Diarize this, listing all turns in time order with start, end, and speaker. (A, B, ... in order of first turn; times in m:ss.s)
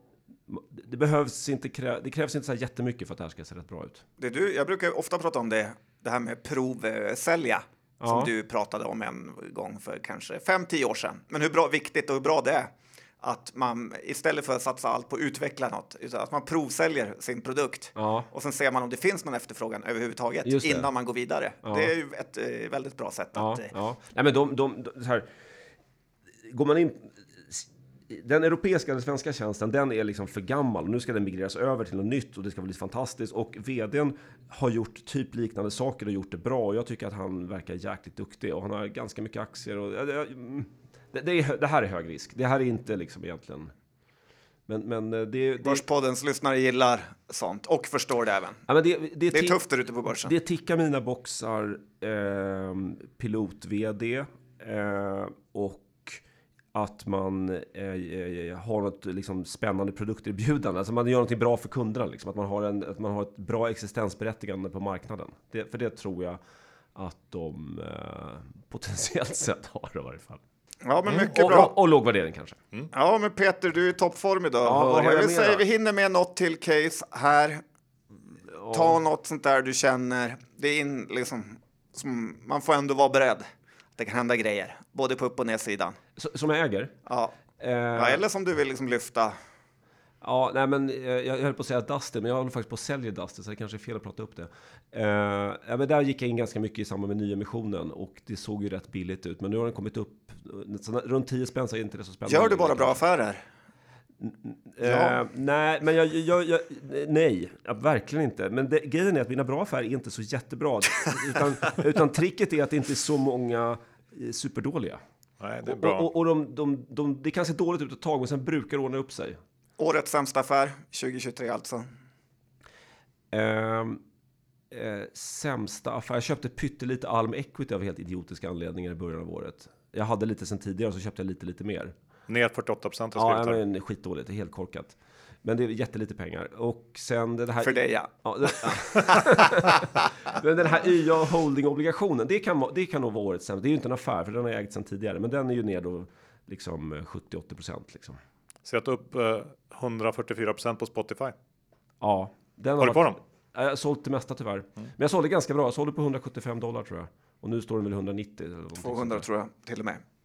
0:00.5-0:04.0 A
0:04.2-0:23.7 B
0:08.0-0:08.3 A
0:18.0-0:18.3 A
0:20.4-0:20.9 A
0:21.6-0:21.9 A
0:23.4-0:25.3 A
0:26.4-0:43.7 A
0:44.7-0:45.8 A
0:45.6-0:48.6 B
0:48.7-0:56.2 A
0:49.3-0:50.3 B
0:56.7-1:06.4 A
1:06.9-1:10.4 A
1:10.8-1:11.7 B
1:11.3-1:12.6 A
1:12.9-1:17.6 B
1:14.6-1:15.6 A
1:18.5-1:19.0 A
1:18.7-1:23.4 B
1:24.0-1:26.0 B
1:26.2-1:26.9 A
1:27.0-1:27.3 B
1:27.6-1:28.2 A
1:27.9-1:29.4 B
1:30.2-1:43.0 A
1:42.2-1:43.4 B
1:44.2-1:55.0 A
1:44.8-1:45.2 B
1:55.4-1:56.1 C
1:55.6-1:59.4 A
1:59.8-2:01.9 B
2:03.3-2:04.0 A
2:04.7-2:11.9 A
2:12.3-2:13.6 C
2:13.2-2:28.2 A
2:17.6-2:20.1 B
2:28.6-2:31.3 C
2:32.0-2:39.2 A
2:32.8-2:33.2 C
2:38.8-2:40.0 B